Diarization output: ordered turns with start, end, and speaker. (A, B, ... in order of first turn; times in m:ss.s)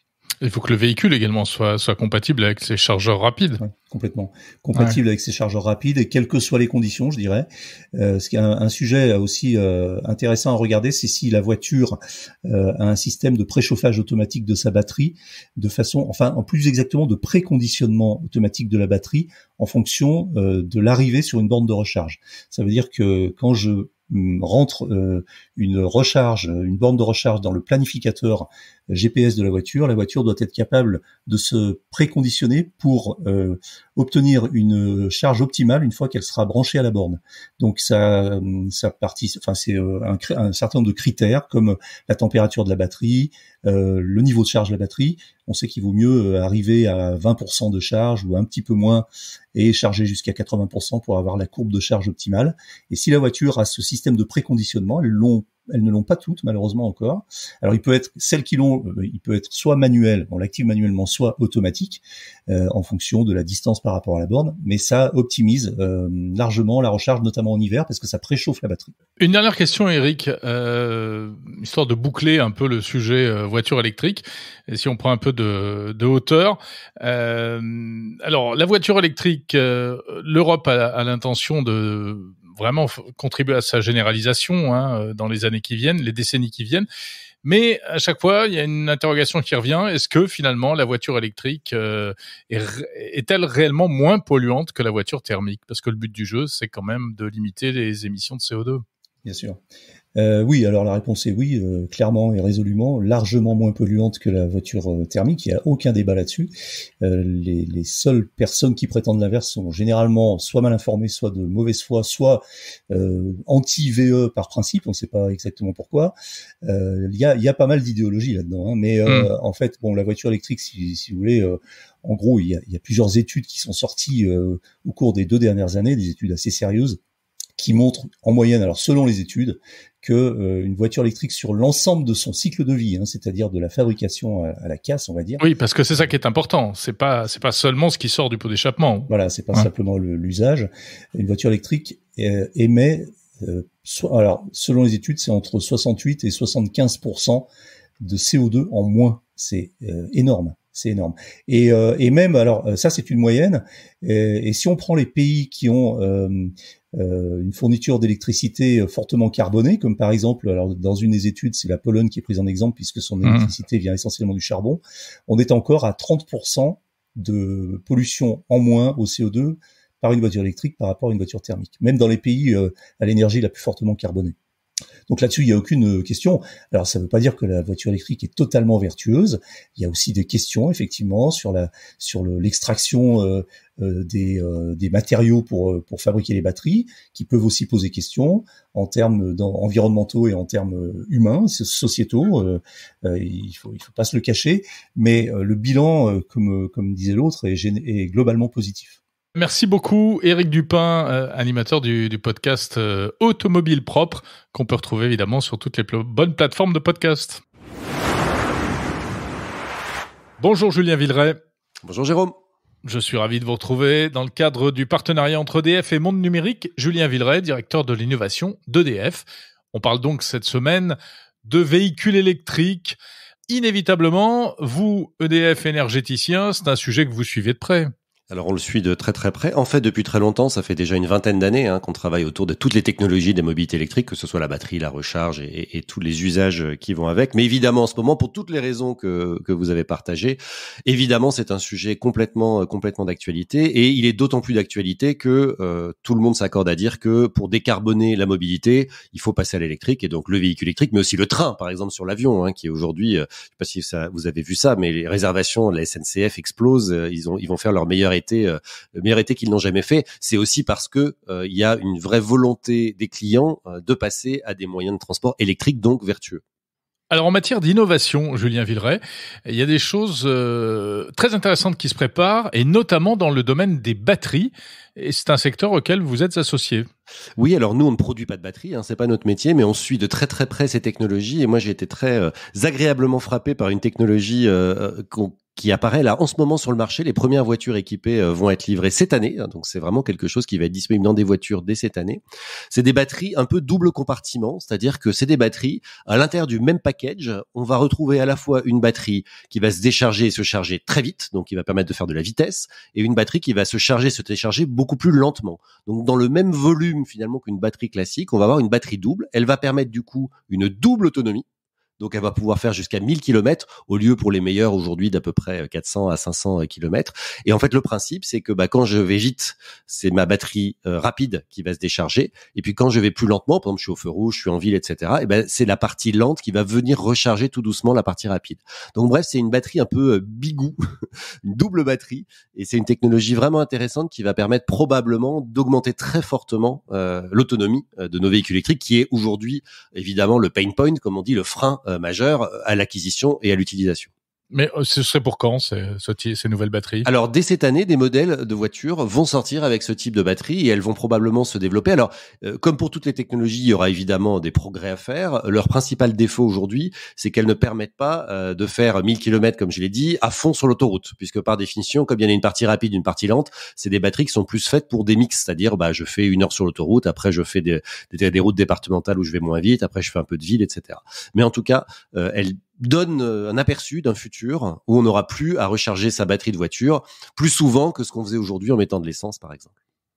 0:00.4-0:03.6 A
0:03.6-1:08.9 B
1:09.2-1:26.9 A
1:27.4-1:38.8 A
1:39.2-1:39.6 B
1:40.2-2:07.0 B
2:07.6-2:15.4 B
2:15.4-2:19.7 A
2:19.1-2:27.5 B
2:28.0-2:54.4 B
2:43.2-2:43.5 A
2:55.1-3:19.0 B
3:19.4-3:27.4 A
3:30.4-3:31.4 A
3:31.8-3:32.4 C
3:32.8-3:43.0 A
3:43.5-3:47.9 A
3:48.3-4:26.4 C
4:27.1-4:36.9 A
4:37.4-5:11.5 C
5:12.0-5:30.8 C
5:31.5-5:44.1 C
5:44.5-5:47.1 A
5:47.0-6:19.7 C